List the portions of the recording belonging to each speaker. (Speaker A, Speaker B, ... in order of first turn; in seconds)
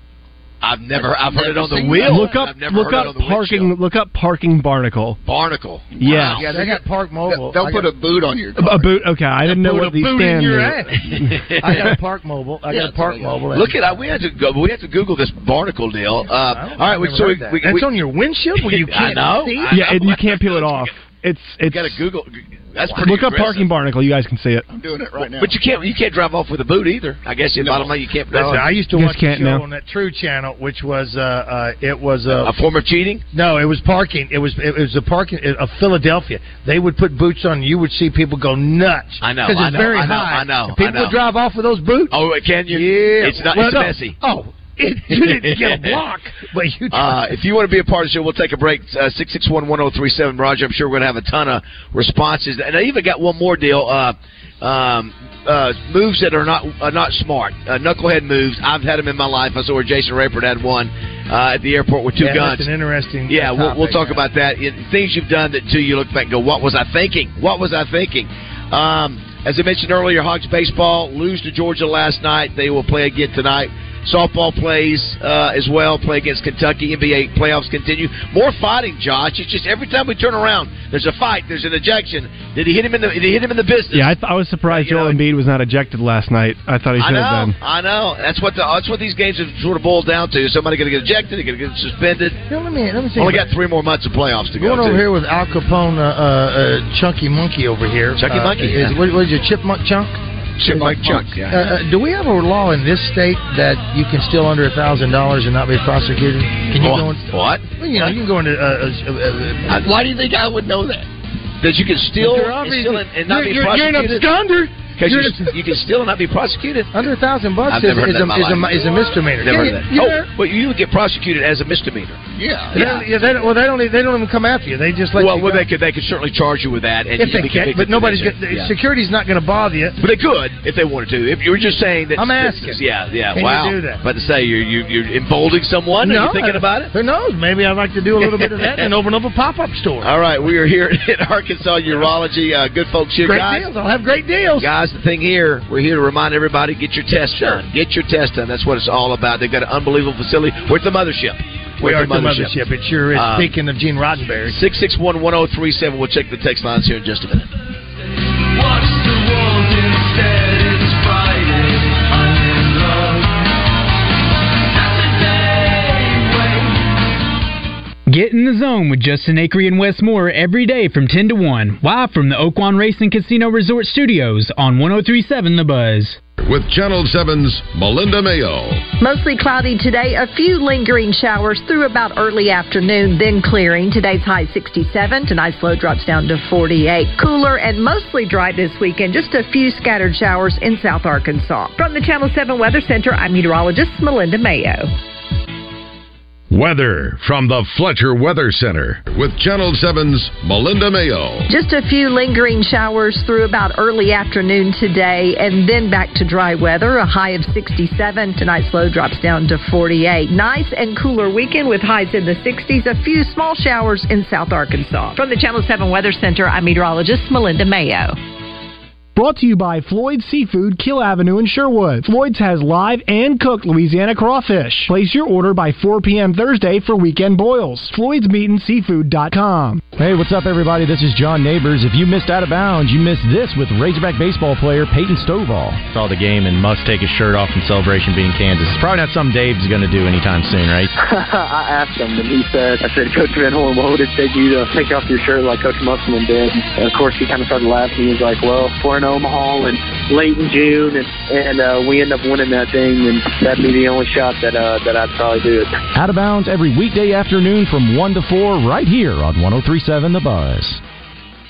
Speaker A: 0.6-3.7, 5.2-6.5, 11.1-11.7, 13.5-17.9, 18.6-20.9, 21.7-23.6, 25.3-28.7, 32.3-33.2, 39.2-41.1, 42.1-44.2, 45.1-46.0, 46.9-62.7, 63.3-84.1, 84.7-85.2, 87.0-92.4, 93.2-95.0, 98.2-99.0, 100.6-101.7, 106.8-107.8, 111.6-114.2, 115.0-116.9, 117.7-122.2, 122.7-123.0, 125.2-128.7, 130.0-136.9, 138.4-138.8, 140.0-143.7, 144.6-152.6, 153.1-153.5, 154.4-157.5
Speaker B: 1.3-2.3, 6.4-7.9, 9.5-11.0, 11.6-13.9, 16.3-19.8, 28.3-32.5, 33.3-47.3, 62.2-64.2, 92.5-93.5, 94.6-109.7, 112.2-115.6, 116.9-120.3, 122.7-125.7, 127.2-130.0, 132.2-132.8, 133.3-134.0, 135.9-140.1, 143.2-144.7, 147.3-147.6, 151.8-154.6
Speaker C: 2.0-5.2, 6.0-6.5, 8.6-11.8, 19.7-22.0, 22.9-24.7, 28.9-29.6, 83.9-87.5, 219.2-229.8
Speaker D: 6.1-8.9, 12.7-13.5, 24.7-25.5, 27.6-27.9, 109.8-111.1, 122.3-123.4
Speaker E: 158.7-161.5, 162.6-163.0, 165.7-166.3
Speaker F: 168.1-176.2
Speaker G: 176.4-178.8, 196.5-201.5
Speaker H: 179.0-194.9, 201.5-218.2
Speaker I: 229.9-240.9, 255.9-260.8
Speaker J: 240.9-255.7